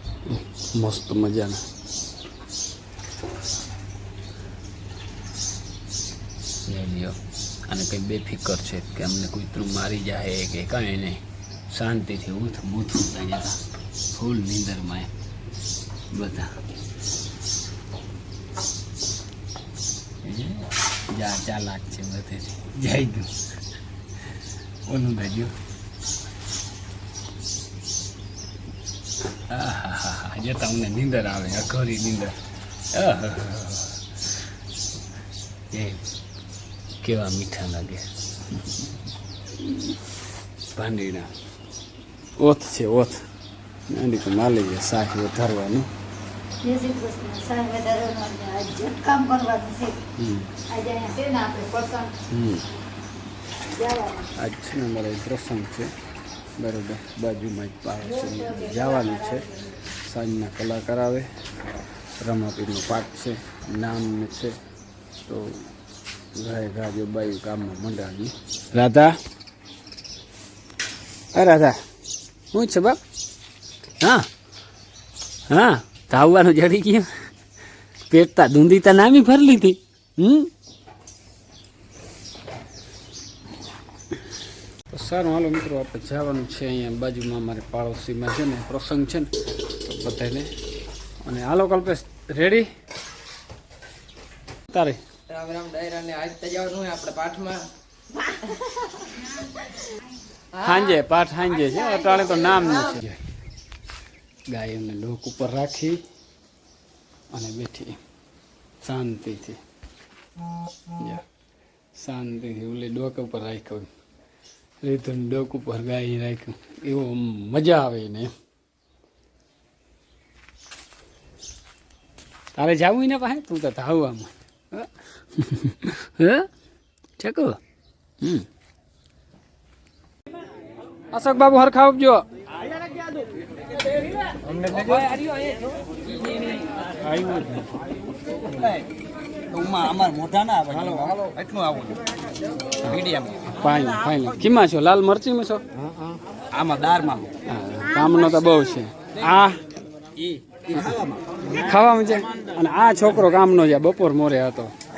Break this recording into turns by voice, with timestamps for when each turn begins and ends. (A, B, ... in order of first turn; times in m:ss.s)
0:00.3-0:01.6 A
0:06.7-0:13.6 A
0:14.1-0:15.1 A
0:16.1-0:16.5 A
0:20.2-0:23.3 A
0:24.9-0:25.5 A
0:29.5-0:32.4 A
0:32.9-0:34.0 A
0:35.7-0:36.0 A
0:37.0-0:38.0 A
0:39.6-0:39.9 A
0:40.8-0:41.3 A
0:42.4-0:43.2 A
0:43.9-0:45.9 A
0:46.6-0:50.0 B
0:50.2-0:50.5 A
0:50.7-0:52.1 B
0:52.3-0:52.7 A
0:53.8-0:54.2 B
0:54.4-0:55.9 A
0:56.6-1:01.3 A
1:02.2-1:04.6 A
1:05.3-1:05.6 A
1:06.4-1:09.2 A
1:11.3-1:11.8 A
1:12.5-1:13.0 A
1:14.0-1:14.3 A
1:15.5-1:17.1 A
1:18.1-1:20.5 A
1:24.9-1:30.5 A
1:31.2-1:32.7 A
1:34.7-1:35.0 A
1:35.4-1:37.6 C
1:40.6-1:43.2 A
1:44.5-1:46.0 A
1:47.3-1:48.0 A
1:48.8-1:49.6 A
1:51.0-1:51.2 A
1:52.0-1:53.9 A
1:54.8-1:58.3 A
2:02.6-2:06.5 A
2:07.2-2:07.6 A
2:08.2-2:08.5 A
2:11.1-2:12.2 A
2:14.4-2:15.2 A
2:17.1-2:17.6 A
2:19.5-2:22.0 D
2:22.8-2:25.6 A
2:23.1-2:23.4 D
2:26.5-2:27.3 D
2:27.5-2:29.6 A
2:30.2-2:31.2 D
2:31.5-2:34.7 A